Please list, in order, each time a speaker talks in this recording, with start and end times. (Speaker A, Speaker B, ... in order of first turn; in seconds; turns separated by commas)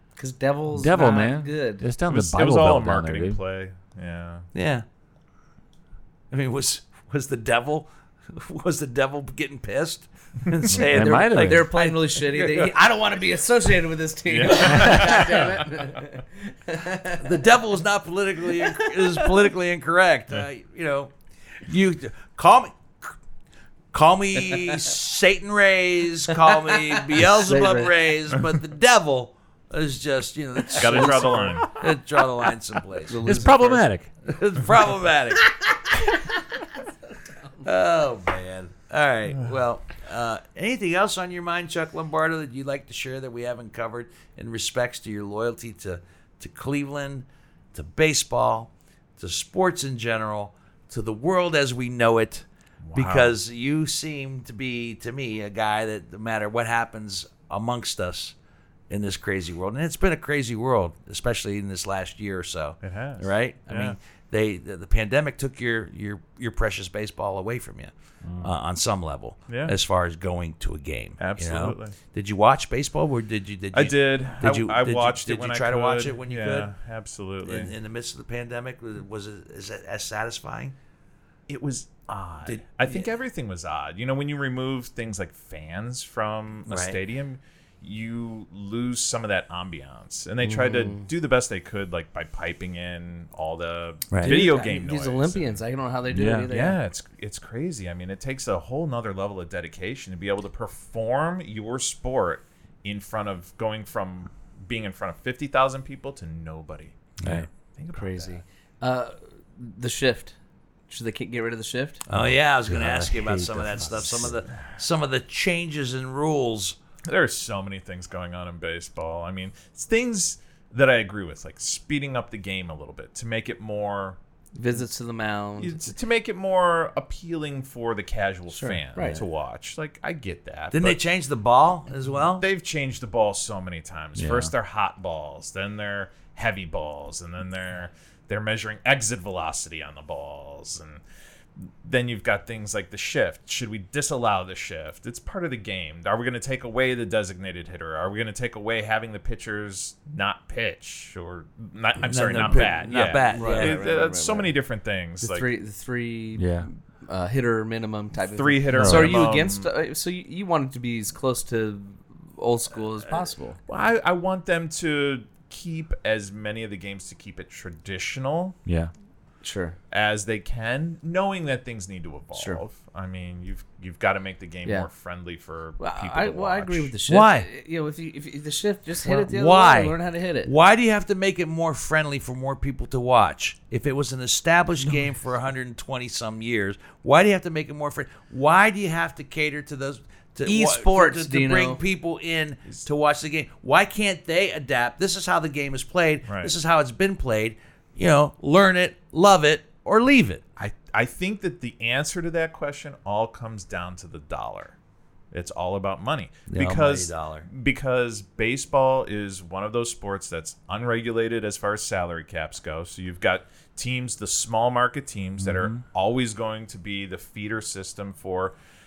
Speaker A: 0.2-1.9, Speaker B: 0.7-3.4, Speaker C: 2.0-4.5, Speaker D: 4.5-4.8, Speaker D: 6.3-12.7, Speaker B: 10.7-11.7, Speaker A: 10.9-17.4, Speaker C: 14.3-15.9, Speaker D: 17.2-23.1, Speaker A: 18.5-19.4, Speaker D: 23.9-33.2, Speaker B: 27.4-27.9, Speaker A: 30.7-31.7, Speaker C: 30.8-31.7, Speaker A: 33.1-33.9, Speaker B: 33.2-34.1, Speaker D: 34.2-35.5, Speaker D: 37.6-58.3, Speaker C: 52.9-53.4, Speaker D: 58.9-76.7, Speaker C: 62.8-64.0, Speaker B: 68.2-68.5, Speaker C: 69.5-69.8, Speaker C: 71.2-72.0, Speaker C: 73.7-77.7, Speaker D: 77.4-80.7, Speaker C: 81.5-95.6, Speaker D: 82.4-83.1, Speaker D: 86.7-87.0, Speaker A: 90.4-91.1, Speaker D: 94.1-94.4, Speaker A: 94.2-96.8, Speaker B: 96.1-96.5, Speaker C: 96.5-108.4, Speaker D: 107.2-107.5, Speaker A: 107.9-110.3, Speaker A: 110.9-112.0, Speaker D: 112.1-116.8, Speaker B: 112.1-114.4, Speaker C: 117.0-124.2, Speaker A: 124.5-125.8, Speaker C: 125.6-131.0, Speaker A: 128.5-129.2, Speaker D: 130.7-132.5, Speaker C: 132.4-141.0, Speaker B: 134.2-134.5, Speaker C: 141.6-155.5, Speaker D: 152.0-153.8, Speaker B: 152.1-152.7, Speaker A: 153.3-154.6, Speaker A: 155.2-163.6, Speaker B: 156.3-156.7, Speaker C: 158.3-159.7, Speaker B: 158.7-159.3, Speaker C: 163.7-168.6, Speaker B: 168.7-168.9, Speaker A: 169.4-169.8, Speaker C: 169.9-176.9, Speaker A: 172.3-172.6, Speaker A: 175.8-180.5, Speaker D: 177.1-177.5, Speaker D: 179.0-200.4, Speaker A: 190.4-191.8, Speaker C: 196.3-196.5, Speaker C: 200.6-204.7, Speaker C: 205.3-218.5, Speaker D: 206.5-207.5, Speaker B: 215.4-215.8